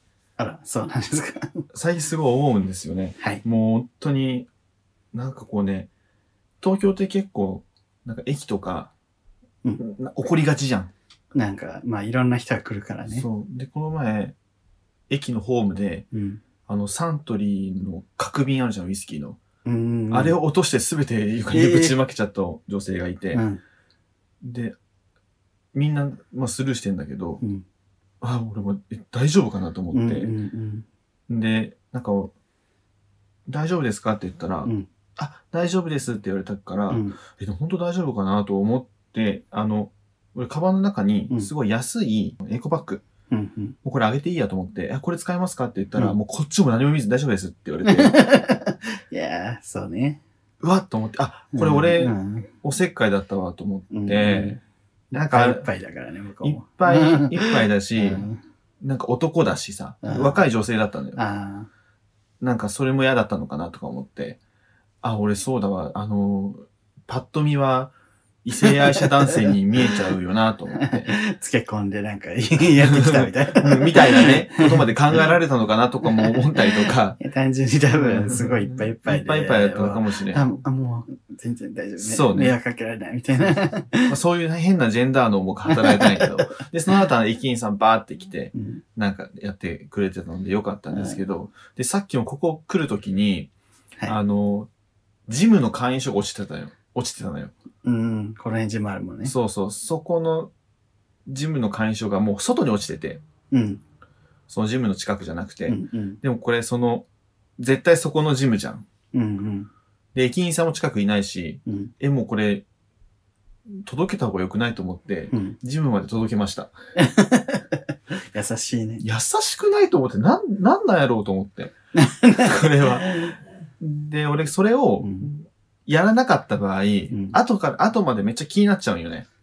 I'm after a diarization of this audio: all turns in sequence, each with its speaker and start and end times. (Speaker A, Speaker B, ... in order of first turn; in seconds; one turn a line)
Speaker A: 0.4-1.6
Speaker B: 1.7-4.5
Speaker B: 5.1-5.9
Speaker B: 6.6-8.9
Speaker B: 9.8-10.9
Speaker A: 11.3-13.3
Speaker B: 13.1-14.3
Speaker B: 15.1-16.1
Speaker A: 16.1-16.4
Speaker B: 16.7-19.4
Speaker A: 19.6-20.4
Speaker B: 20.1-23.4
Speaker A: 21.5-22.0
Speaker A: 23.3-23.6
Speaker B: 24.4-24.8
Speaker B: 25.7-27.4
Speaker B: 28.2-30.3
Speaker A: 29.9-30.9
Speaker B: 31.3-32.3
Speaker B: 33.5-43.0
Speaker A: 36.9-37.2
Speaker A: 43.3-43.8
Speaker B: 43.8-48.1
Speaker A: 47.9-50.2
Speaker B: 50.6-54.6
Speaker A: 51.5-52.5
Speaker A: 53.9-54.6
Speaker A: 55.1-58.4
Speaker B: 55.1-55.7
Speaker B: 56.4-58.3
Speaker B: 58.8-61.2
Speaker A: 60.0-60.4
Speaker A: 61.2-61.7
Speaker B: 62.4-64.4
Speaker B: 65.0-67.9
Speaker B: 68.4-71.1
Speaker A: 68.6-70.0
Speaker A: 70.8-75.3
Speaker B: 72.8-77.2
Speaker A: 76.0-84.2
Speaker B: 78.0-80.5
Speaker B: 82.0-82.5
Speaker B: 84.1-93.5
Speaker A: 85.7-86.4
Speaker A: 88.5-88.8
Speaker A: 90.9-91.2
Speaker B: 94.1-94.7
Speaker B: 95.3-97.5
Speaker A: 97.8-99.3
Speaker B: 99.2-100.5
Speaker B: 101.3-103.2
Speaker A: 103.5-103.8
Speaker B: 104.5-107.1
Speaker A: 105.7-106.2
Speaker B: 107.6-108.8
Speaker A: 109.1-109.7
Speaker B: 110.2-112.7
Speaker A: 111.7-111.9
Speaker B: 113.7-116.7
Speaker A: 115.3-115.6
Speaker A: 117.0-119.0
Speaker B: 119.0-121.7
Speaker A: 122.0-123.3
Speaker B: 122.4-129.3
Speaker A: 125.0-125.3
Speaker A: 127.1-127.4